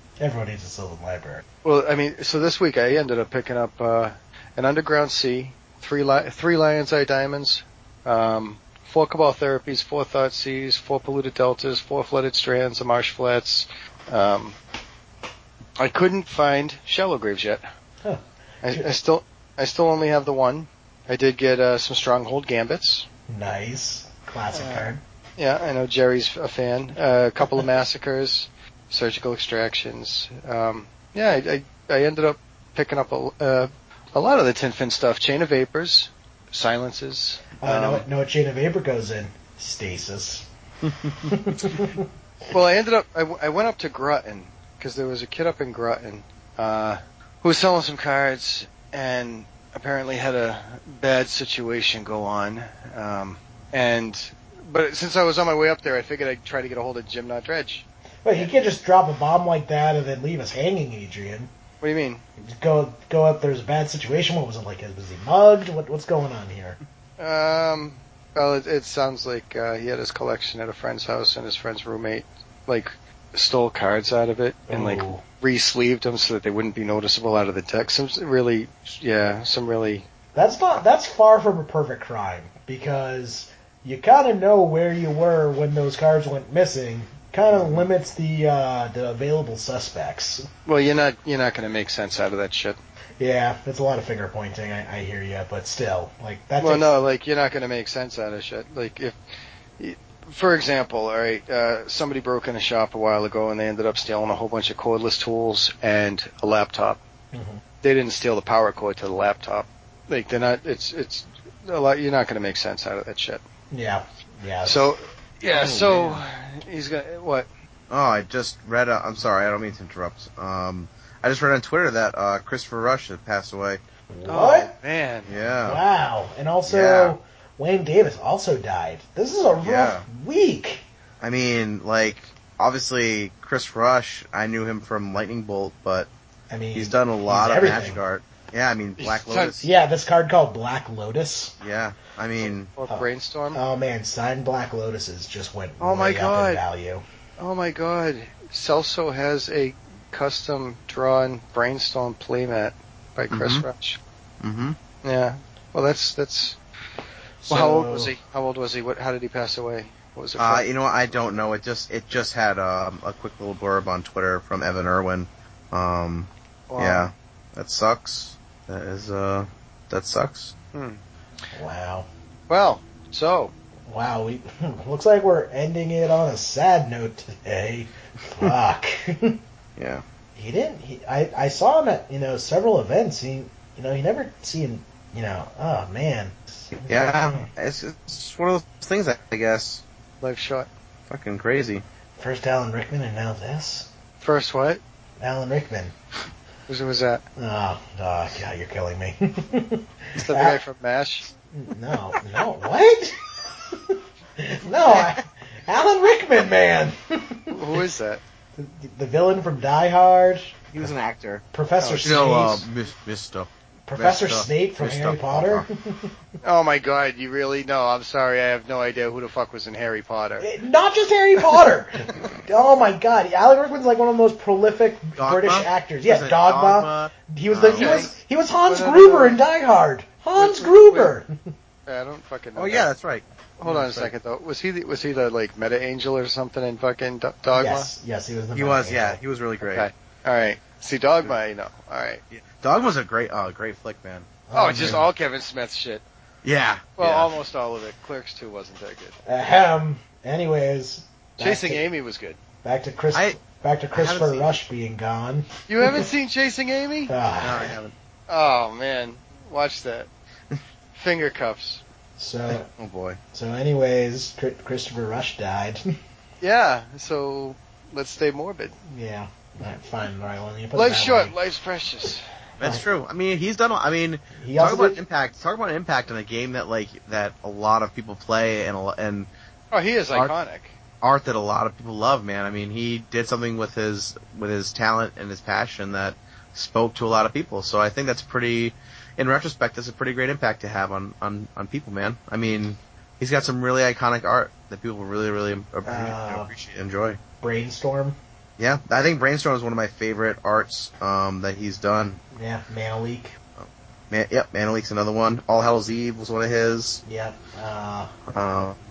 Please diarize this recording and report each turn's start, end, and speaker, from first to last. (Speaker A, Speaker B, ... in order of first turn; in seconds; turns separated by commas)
Speaker A: 0.2-1.4, Speaker B: 1.6-14.6, Speaker B: 15.8-17.6, Speaker A: 18.0-18.8, Speaker B: 18.6-23.1, Speaker A: 23.3-25.0, Speaker B: 24.5-38.0, Speaker A: 37.6-40.5, Speaker C: 40.9-41.3, Speaker A: 41.3-42.0, Speaker B: 42.5-57.9, Speaker A: 58.2-61.5, Speaker B: 61.8-62.2, Speaker A: 62.4-66.8, Speaker B: 67.2-80.1, Speaker A: 74.7-75.2, Speaker A: 80.3-90.5, Speaker B: 90.7-92.8, Speaker A: 93.2-96.9, Speaker B: 96.6-99.2, Speaker B: 99.8-107.0, Speaker A: 107.3-107.6, Speaker B: 107.8-113.4, Speaker A: 113.7-114.8, Speaker B: 114.7-117.5, Speaker C: 115.5-116.2, Speaker C: 117.9-123.8, Speaker A: 124.1-124.7, Speaker B: 124.3-125.4, Speaker C: 125.3-125.8, Speaker A: 125.6-130.9, Speaker C: 126.7-127.2, Speaker C: 129.6-130.1, Speaker C: 131.2-136.1, Speaker A: 136.5-138.0, Speaker C: 136.7-139.7, Speaker B: 139.0-139.5, Speaker A: 139.6-141.6, Speaker C: 141.6-142.7, Speaker B: 142.8-143.6, Speaker A: 142.9-147.1, Speaker B: 145.8-146.6, Speaker B: 147.4-154.0, Speaker C: 153.3-153.7, Speaker C: 154.4-154.8, Speaker B: 155.0-156.6, Speaker A: 157.4-158.1, Speaker B: 157.5-160.7, Speaker C: 160.4-170.5, Speaker B: 166.7-167.1, Speaker B: 170.7-171.0, Speaker A: 171.5-172.1, Speaker B: 172.5-173.5, Speaker A: 173.9-179.4, Speaker C: 179.8-180.0, Speaker A: 180.4-187.5, Speaker C: 186.9-189.8, Speaker B: 190.2-190.7, Speaker C: 191.1-191.8, Speaker A: 192.2-193.9, Speaker B: 194.2-194.8, Speaker A: 195.2-195.9, Speaker B: 196.7-197.2, Speaker A: 197.4-200.6, Speaker B: 200.2-201.3, Speaker A: 201.5-203.2, Speaker A: 203.7-207.5, Speaker B: 207.5-208.2, Speaker A: 208.6-210.9, Speaker C: 210.7-211.4, Speaker A: 211.5-212.7, Speaker B: 211.8-212.2, Speaker C: 212.0-215.7, Speaker A: 213.9-216.1, Speaker B: 216.4-220.5, Speaker A: 220.4-231.3, Speaker C: 225.2-228.1, Speaker B: 227.7-228.1, Speaker B: 228.7-229.4, Speaker B: 230.4-231.1, Speaker B: 231.9-232.9, Speaker C: 232.6-233.2, Speaker B: 233.6-237.9, Speaker A: 233.7-234.1, Speaker A: 237.5-239.2, Speaker C: 238.5-239.9, Speaker B: 239.6-242.2, Speaker C: 242.3-245.0, Speaker A: 244.5-245.1, Speaker B: 244.5-246.0, Speaker C: 246.4-247.3, Speaker B: 247.0-249.2, Speaker A: 249.2-251.8, Speaker B: 251.4-252.4, Speaker A: 252.6-255.5, Speaker C: 253.9-254.6, Speaker B: 255.7-257.1, Speaker A: 257.1-257.7, Speaker C: 257.4-257.9, Speaker B: 258.3-260.1, Speaker B: 260.9-261.8, Speaker A: 262.2-262.7, Speaker C: 262.5-263.2, Speaker A: 263.3-265.9, Speaker B: 266.4-268.7, Speaker A: 268.9-271.3, Speaker B: 270.7-272.2, Speaker C: 272.6-279.3, Speaker A: 274.4-275.0, Speaker B: 279.7-280.7, Speaker C: 281.0-297.2, Speaker A: 295.9-296.5, Speaker A: 297.4-298.2, Speaker C: 298.6-302.2, Speaker A: 302.3-303.3, Speaker C: 303.6-307.0, Speaker A: 307.1-308.2, Speaker C: 308.3-308.8